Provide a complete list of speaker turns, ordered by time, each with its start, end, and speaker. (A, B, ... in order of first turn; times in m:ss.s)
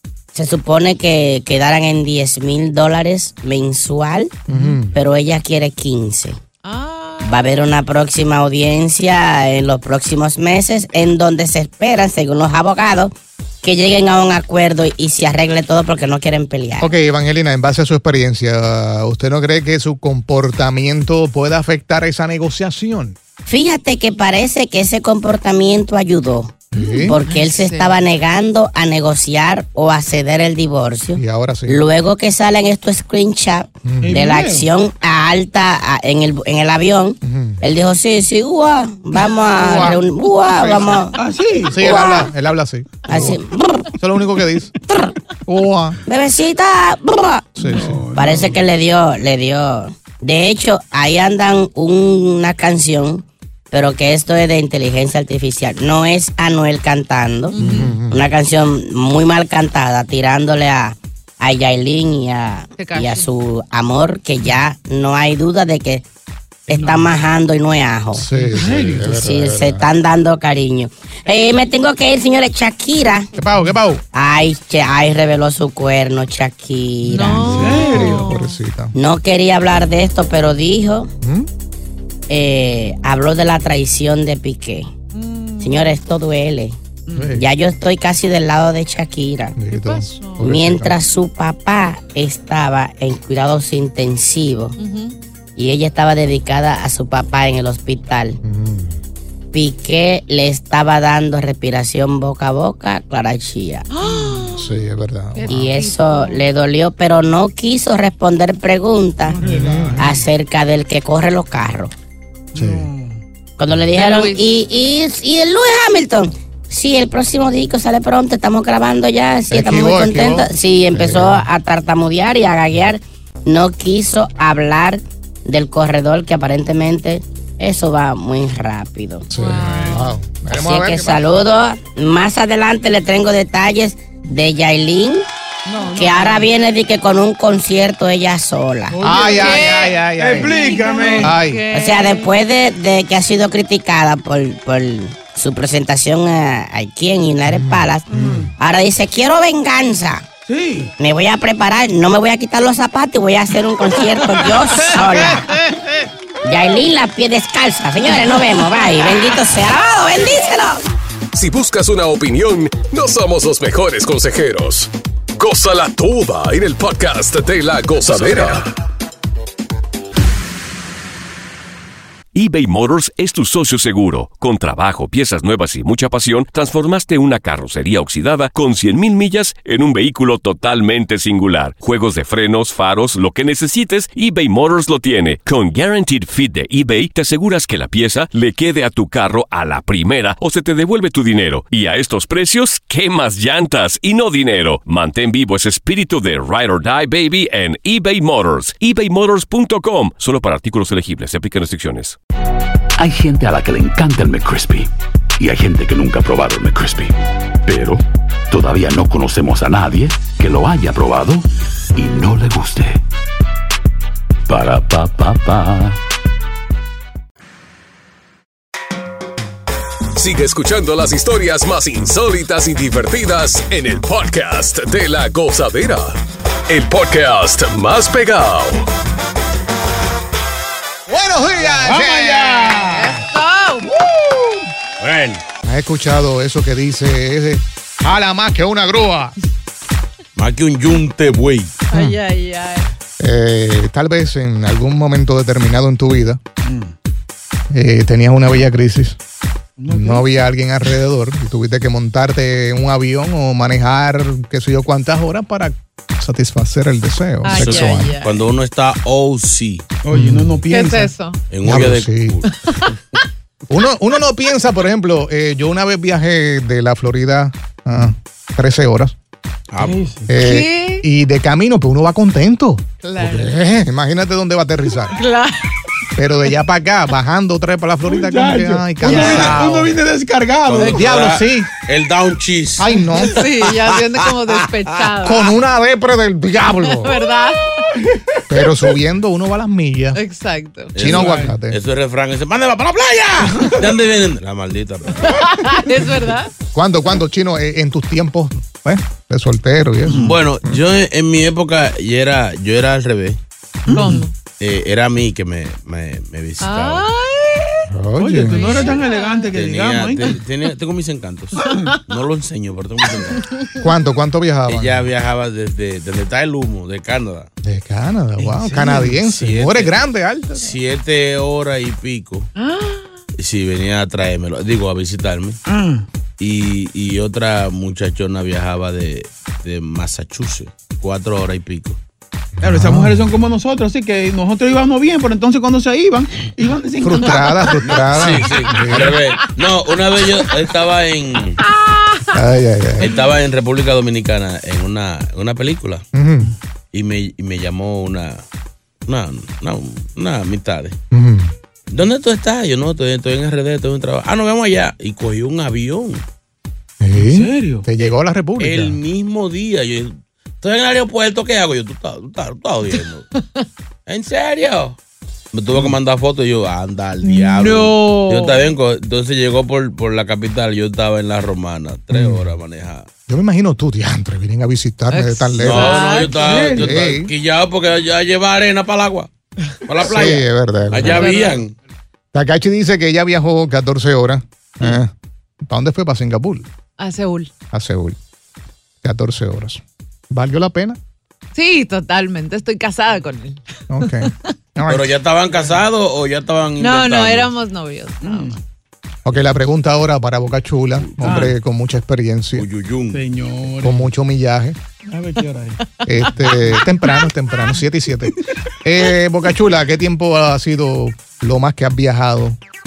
0:00.3-0:04.4 A
0:04.5-0:04.9 B
0:04.9-0:06.4 A
0:06.6-0:07.4 C
0:07.2-0:16.9 A
0:16.8-0:23.2 B
0:23.4-0:41.2 A
0:26.7-0:27.2 B
0:26.7-0:28.0 C
0:31.2-0:31.8 B
0:33.8-0:34.2 B
0:34.0-0:34.7 D
0:37.2-0:37.6 B
0:39.5-0:41.1 B
0:41.2-0:42.0 D
0:41.6-0:43.4 B
0:41.8-0:42.3 A
0:43.1-0:43.9 A
0:43.9-0:44.7 B
0:44.9-0:45.1 A
0:45.4-0:46.0 B
0:46.0-0:47.5 A
0:47.6-0:48.3 B
0:47.6-0:48.6 D
0:48.1-0:57.6 A
0:57.5-0:58.0 C
0:57.6-0:58.3 B
0:58.1-1:06.0 A
1:02.8-1:03.3 C
1:06.7-1:08.2 A
1:06.7-1:07.1 D
1:08.1-1:09.8 B
1:08.4-1:09.2 D
1:09.0-1:13.3 A
1:13.3-1:14.0 B
1:14.1-1:17.9 A
1:17.1-1:18.6 C
1:17.4-1:18.9 B
1:17.5-1:18.2 D
1:18.9-1:21.1 A
1:21.2-1:21.5 B
1:22.3-1:24.9 A
1:25.1-1:26.0 C
1:25.6-1:26.8 A
1:27.1-1:27.4 D
1:27.1-1:27.5 B
1:27.3-1:29.6 A
1:29.6-1:31.0 B
1:29.7-1:30.5 C
1:30.4-1:34.8 A
1:34.8-1:35.2 C
1:35.6-1:38.4 A
1:38.4-1:39.0 B
1:39.5-1:43.9 A
1:43.9-1:44.7 C
1:44.5-1:45.7 B
1:45.3-1:46.5 C
1:45.5-1:49.4 A
1:49.2-1:50.2 D
1:49.4-1:50.2 B
1:50.0-1:51.9 A
1:52.5-1:53.2 D
1:52.5-1:52.9 B
1:53.6-2:09.3 A
1:53.9-1:54.5 C
1:59.5-2:01.5 B
2:09.3-2:11.2 B
2:09.3-2:10.1 C
2:09.7-2:10.0 D
2:10.5-2:15.2 A
2:15.7-2:16.5 D
2:15.9-2:19.0 A
2:18.9-2:21.4 D
2:19.0-2:21.6 B
2:19.3-2:22.4 C
2:21.7-2:30.2 A
2:27.5-2:28.5 B
2:28.1-2:28.5 D
2:30.4-2:30.9 D
2:31.0-2:35.6 A
2:36.4-2:40.8 A
2:41.3-2:48.7 E
2:52.3-3:22.2 F
3:23.0-3:33.0 G
3:34.5-3:36.0 G
3:40.2-3:48.8 E
3:51.1-3:53.0 B
3:51.7-3:53.2 D
3:52.9-3:53.9 C
3:54.0-3:54.6 D
3:55.0-3:55.4 H
3:55.6-3:59.3 B
4:00.4-4:01.7 H
4:01.9-4:02.9 C
4:03.2-4:06.4 B
4:06.6-4:06.9 D
4:07.7-4:09.2 B
4:09.8-4:10.2 D
4:09.9-4:18.2 B
4:17.4-4:18.4 C
4:17.4-4:19.8 H
4:20.0-4:21.1 D
4:20.1-4:20.6 B
4:20.7-4:21.4 C
4:21.5-4:22.5 H
4:21.6-4:22.4 B
4:22.5-4:22.9 C
4:23.7-4:29.1 B
4:29.7-4:30.1 H
4:29.8-4:30.3 D
4:30.3-4:35.2 B
4:30.4-4:31.1 C
4:33.0-4:33.6 C
4:35.1-4:35.8 C
4:36.2-4:40.0 B
4:38.0-4:41.1 D
4:39.0-4:39.4 C
4:39.2-4:39.6 H
4:40.6-4:44.2 H
4:40.8-4:41.7 B
4:42.8-4:43.4 B
4:43.2-4:45.5 C
4:45.2-4:47.2 B
4:46.8-4:48.0 C
4:47.9-4:48.4 D
4:48.5-4:50.2 B
4:50.1-4:50.9 C
4:50.9-4:51.8 B
4:50.9-4:55.4 H
4:51.1-4:51.5 D
4:55.2-4:56.5 C
4:56.7-5:00.8 B
5:00.1-5:03.4 H
5:03.9-5:04.2 D
5:03.9-5:04.3 C
5:04.6-5:07.1 H
5:06.6-5:07.9 C
5:07.9-5:08.8 B
5:08.2-5:10.4 D
5:08.4-5:09.5 C
5:09.5-5:13.4 H
5:11.6-5:12.0 C
5:13.3-5:13.8 C
5:13.8-5:15.1 B
5:14.7-5:17.5 H
5:17.6-5:20.7 B
5:18.4-5:19.2 D
5:19.2-5:20.0 H
5:20.5-5:22.5 H
5:22.6-5:23.2 C
5:23.4-5:25.6 H
5:25.6-5:26.0 D
5:26.4-5:32.0 H
5:32.6-5:33.3 B
5:32.6-5:37.8 D
5:37.0-5:39.2 B
5:37.8-5:41.6 H
5:41.6-5:42.4 C
5:42.3-5:43.1 B
5:43.0-5:46.0 H
5:46.1-5:46.5 B
5:46.9-5:48.4 H
5:49.1-5:51.0 H
5:51.1-5:51.5 B
5:51.9-5:56.2 H
5:57.0-5:59.0 B
5:57.1-5:57.9 D
5:58.6-6:03.2 H
6:04.1-6:05.0 H
6:05.5-6:13.1 H
6:07.3-6:08.6 C
6:12.1-6:12.5 B
6:13.3-6:16.2 B
6:15.1-6:16.6 C
6:15.6-6:19.3 H
6:16.4-6:16.9 D
6:16.8-6:17.3 B
6:19.8-6:21.7 H
6:20.0-6:21.4 B
6:21.0-6:21.6 C
6:22.3-6:25.1 B
6:25.6-6:26.7 B
6:27.0-6:27.5 C
6:27.7-6:28.2 B
6:29.0-6:31.0 B
6:31.5-6:34.5 C
6:33.9-6:35.2 B
6:34.9-6:37.5 H
6:36.8-6:38.6 C
6:38.2-6:38.5 D
6:39.2-6:42.7 B
6:41.2-6:41.5 H
6:41.2-6:41.5 D
6:42.6-6:43.2 H
6:43.1-6:44.1 D
6:43.8-6:44.8 B
6:45.0-6:45.8 D
6:45.8-6:46.1 C
6:46.0-6:52.6 B